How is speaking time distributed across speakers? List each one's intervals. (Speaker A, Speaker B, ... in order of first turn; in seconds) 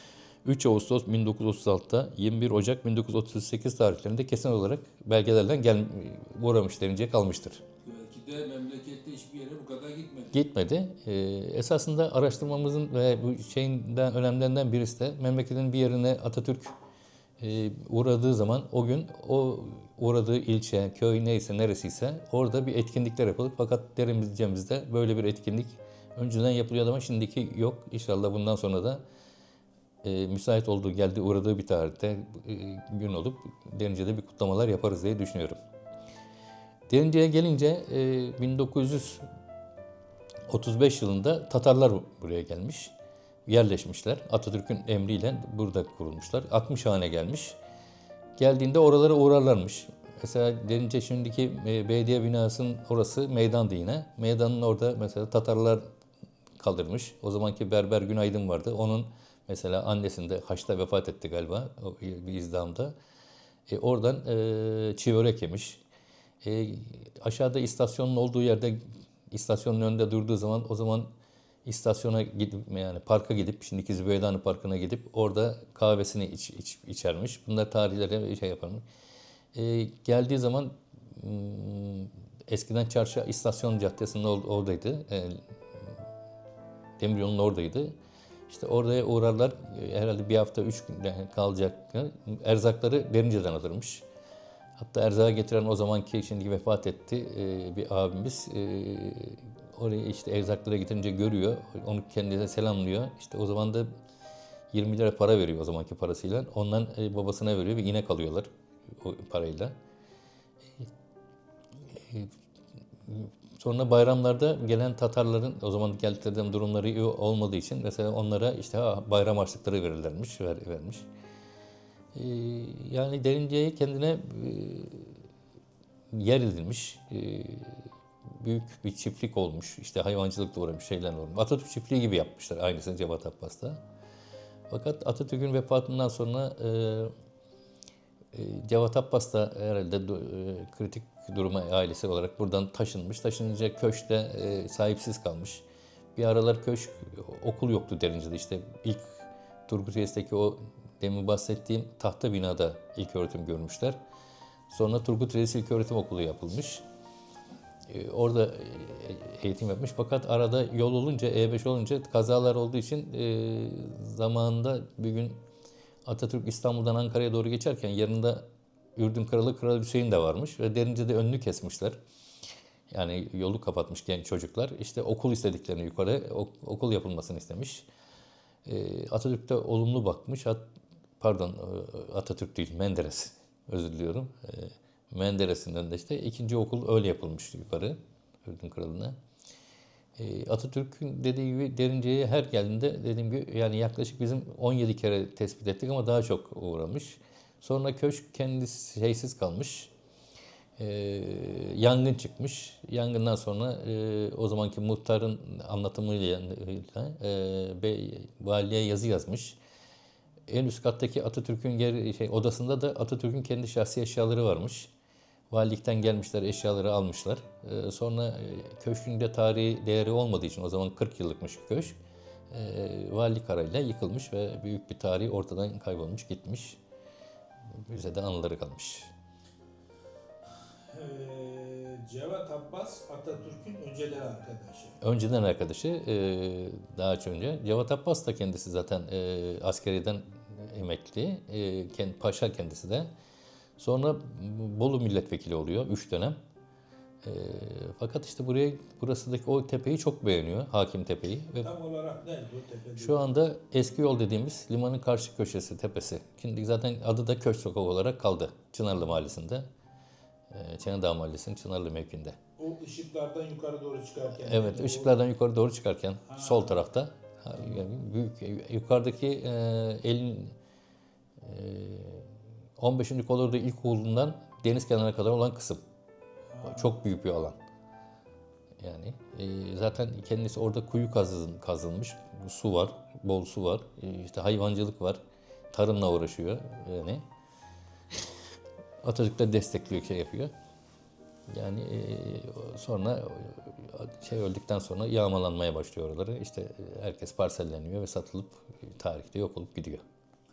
Speaker A: 0.4-7.6, 10.3-16.7, 17.4-29.0, 30.0-35.6, 36.9-39.2, 40.5-42.9, 43.5-47.5, 48.4-55.8, 56.6-62.9, 63.7-65.8, 66.4-71.1, 71.6-78.8, 79.5-85.5, 87.0-87.9, 88.5-94.0, 94.8-103.9, 104.7-109.7, 111.9-112.3, 113.0-121.1, 122.1-125.2, 126.1-133.8, 134.7-137.1, 138.3-145.6, 146.1-154.0, 154.7-156.8, 157.9-165.4, 166.1-168.4, 168.9-172.0, 172.9-177.8, 178.6-180.6, 181.2-189.2, 190.2-199.9, 200.8-209.6, 210.5-214.9, 215.5-221.9, 222.5-226.8, 227.8-229.1, 235.0-243.1, 243.8-246.3, 247.2-251.7, 253.0-259.6, 260.5-262.4, 264.3-270.5, 271.4-275.8, 276.6-277.6, 278.8-285.2, 285.7-287.2, 289.0-290.5, 291.5-300.0
Speaker B: 7.8-10.3
Speaker C: 230.9-235.0, 251.6-253.2, 262.6-265.1, 266.4-266.6, 276.5-276.8